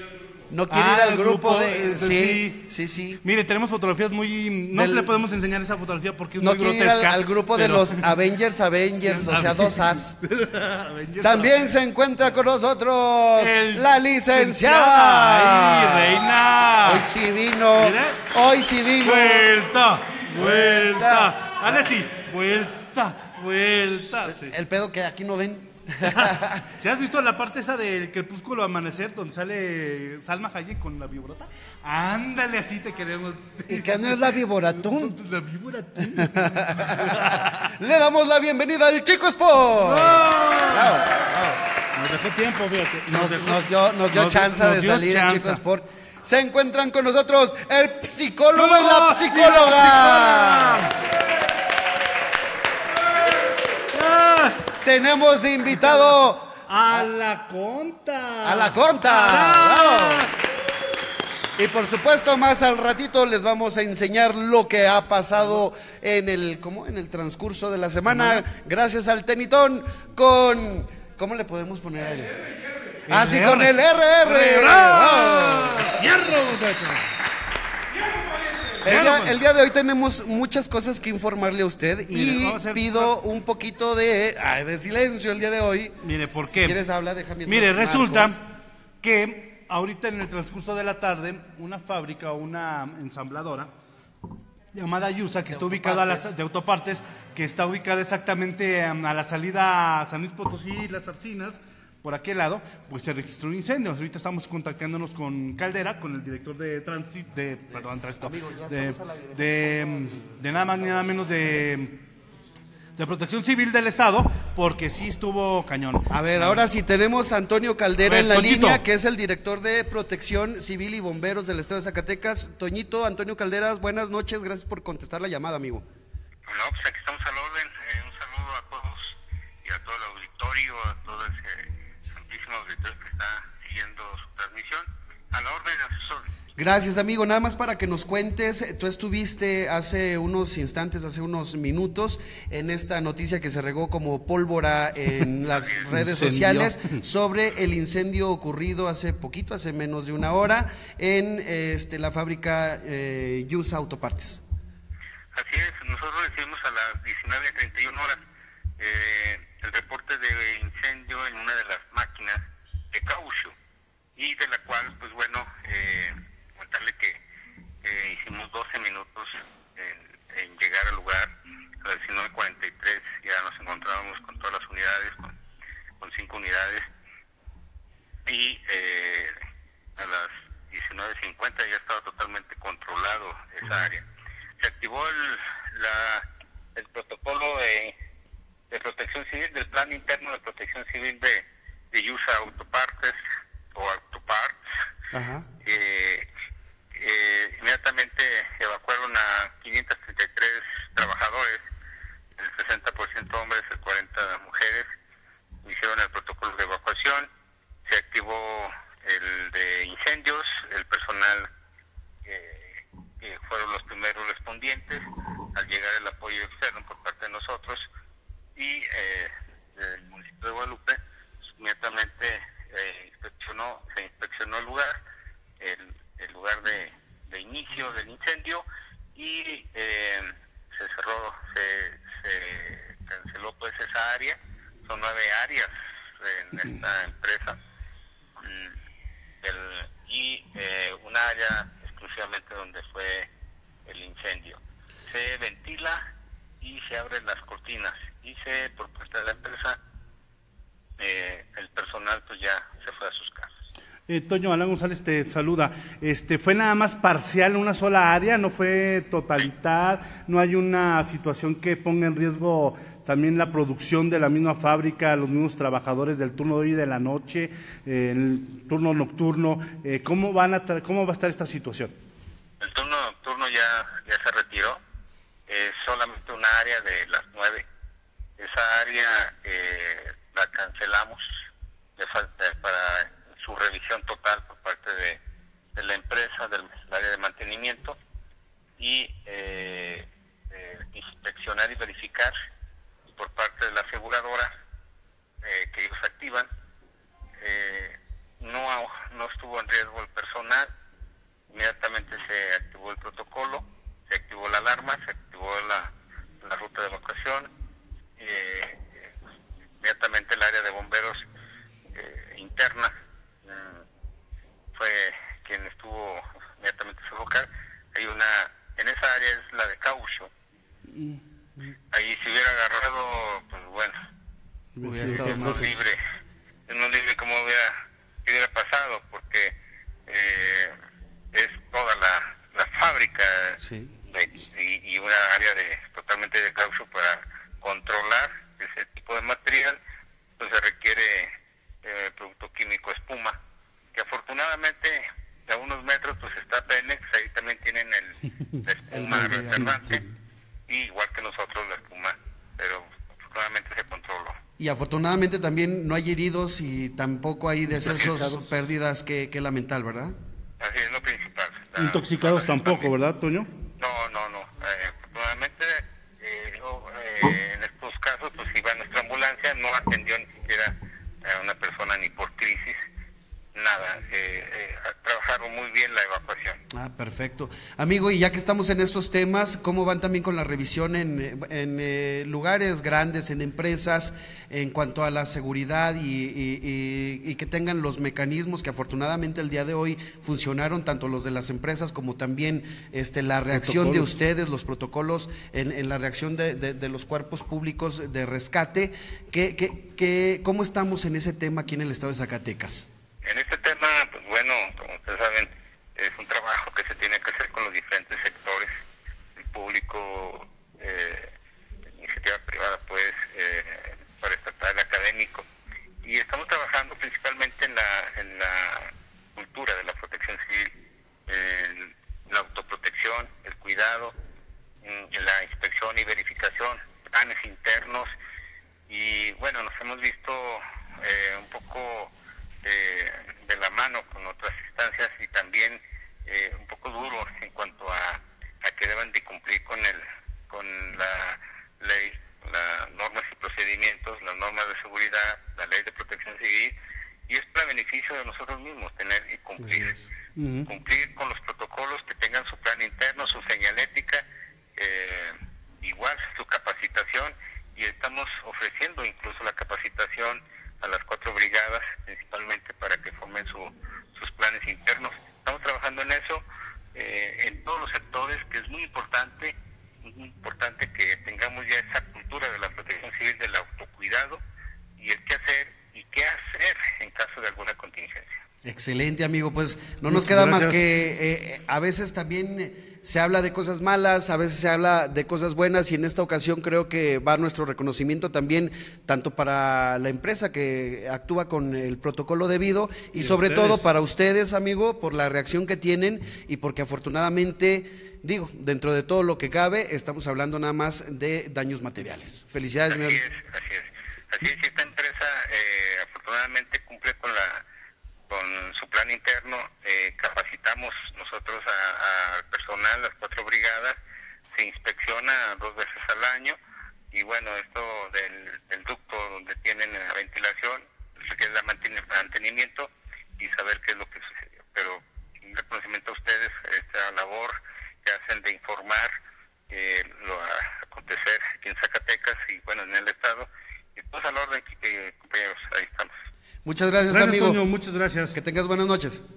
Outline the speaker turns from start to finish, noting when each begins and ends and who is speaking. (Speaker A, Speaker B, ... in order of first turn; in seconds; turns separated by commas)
Speaker A: 0.5-3.2, Speaker B: 0.7-2.6, Speaker B: 3.2-8.0, Speaker A: 4.7-5.1, Speaker A: 6.4-10.2, Speaker B: 9.0-11.7, Speaker A: 11.2-16.1, Speaker B: 13.4-17.1, Speaker A: 16.8-19.5, Speaker B: 17.8-18.3, Speaker B: 19.0-24.5, Speaker A: 20.7-21.3, Speaker A: 24.3-26.7, Speaker B: 26.1-37.7, Speaker A: 33.7-35.2, Speaker A: 36.2-41.6, Speaker B: 39.8-41.0, Speaker B: 41.9-45.6, Speaker A: 43.1-50.9, Speaker B: 48.5-50.9, Speaker B: 53.9-54.7, Speaker A: 54.8-57.1, Speaker B: 56.7-60.3, Speaker A: 58.4-60.3, Speaker A: 61.5-72.3, Speaker B: 68.1-68.4, Speaker B: 73.1-73.7, Speaker A: 73.1-76.0, Speaker B: 74.2-77.1, Speaker B: 78.8-79.3, Speaker A: 78.8-88.3, Speaker B: 82.1-83.1, Speaker B: 86.0-86.8, Speaker B: 87.5-88.5, Speaker B: 89.0-93.7, Speaker B: 94.7-112.0, Speaker A: 95.5-96.3, Speaker A: 107.7-111.0, Speaker B: 113.0-116.5, Speaker A: 116.1-125.8, Speaker B: 118.0-118.8, Speaker C: 126.5-136.3, Speaker A: 136.6-154.4, Speaker C: 145.5-145.8, Speaker B: 145.9-147.0, Speaker C: 155.3-158.2, Speaker C: 158.8-163.5, Speaker C: 164.2-167.2, Speaker C: 167.8-175.3, Speaker C: 176.0-176.9, Speaker C: 178.2-179.3, Speaker C: 180.0-184.0, Speaker C: 184.6-187.9, Speaker C: 188.7-193.2, Speaker C: 193.7-194.6, Speaker A: 195.1-195.4, Speaker C: 195.6-196.3, Speaker C: 196.9-201.6, Speaker C: 202.4-204.9, Speaker C: 205.6-207.3, Speaker C: 207.8-211.5, Speaker C: 212.2-217.8, Speaker C: 218.6-221.0, Speaker C: 221.6-225.0, Speaker C: 225.6-228.6, Speaker C: 229.2-237.6, Speaker C: 238.4-238.7, Speaker C: 239.4-243.3, Speaker C: 243.8-246.0, Speaker C: 246.6-249.8, Speaker C: 251.0-253.5, Speaker B: 254.1-271.9, Speaker C: 272.6-274.8, Speaker C: 275.5-277.6, Speaker C: 278.4-281.2, Speaker C: 282.0-285.2, Speaker C: 285.8-287.9, Speaker C: 288.8-292.3, Speaker C: 293.2-294.5, Speaker C: 295.4-296.5, Speaker C: 297.4-300.7, Speaker C: 301.5-305.9, Speaker C: 306.4-307.5, Speaker C: 308.2-308.9, Speaker C: 309.8-311.2, Speaker C: 311.9-312.9, Speaker C: 313.4-313.8, Speaker C: 314.7-320.3, Speaker C: 321.9-323.9, Speaker B: 324.8-325.7, Speaker A: 324.8-325.8, Speaker C: 325.3-326.0, Speaker C: 326.7-327.7, Speaker C: 328.2-329.5, Speaker C: 330.1-330.7, Speaker C: 331.3-339.8, Speaker A: 333.6-333.9, Speaker C: 340.4-343.4, Speaker C: 343.9-350.0, Speaker A: 348.9-349.8, Speaker C: 350.7-354.4, Speaker A: 354.6-360.1, Speaker B: 357.9-358.5, Speaker C: 360.6-362.9, Speaker B: 361.8-363.5, Speaker C: 363.8-372.8, Speaker C: 373.5-376.6, Speaker A: 376.7-402.9, Speaker B: 393.6-394.0, Speaker C: 403.2-408.7, Speaker C: 409.4-411.3, Speaker C: 412.0-415.4, Speaker C: 416.0-420.7, Speaker C: 421.3-424.1, Speaker C: 424.8-428.1, Speaker C: 428.9-432.1, Speaker C: 432.6-446.7, Speaker C: 447.3-449.9, Speaker A: 449.6-450.1, Speaker B: 450.4-450.7, Speaker C: 450.7-454.2, Speaker C: 454.8-466.4, Speaker C: 466.9-474.4, Speaker C: 475.0-478.4, Speaker A: 478.6-503.2, Speaker B: 480.1-480.8, Speaker B: 493.2-493.8, Speaker C: 502.9-507.6, Speaker C: 508.3-514.0, Speaker C: 514.5-516.6, Speaker C: 517.1-529.1, Speaker C: 529.7-536.1, Speaker A: 536.6-537.6, Speaker B: 537.1-538.4, Speaker A: 538.3-539.2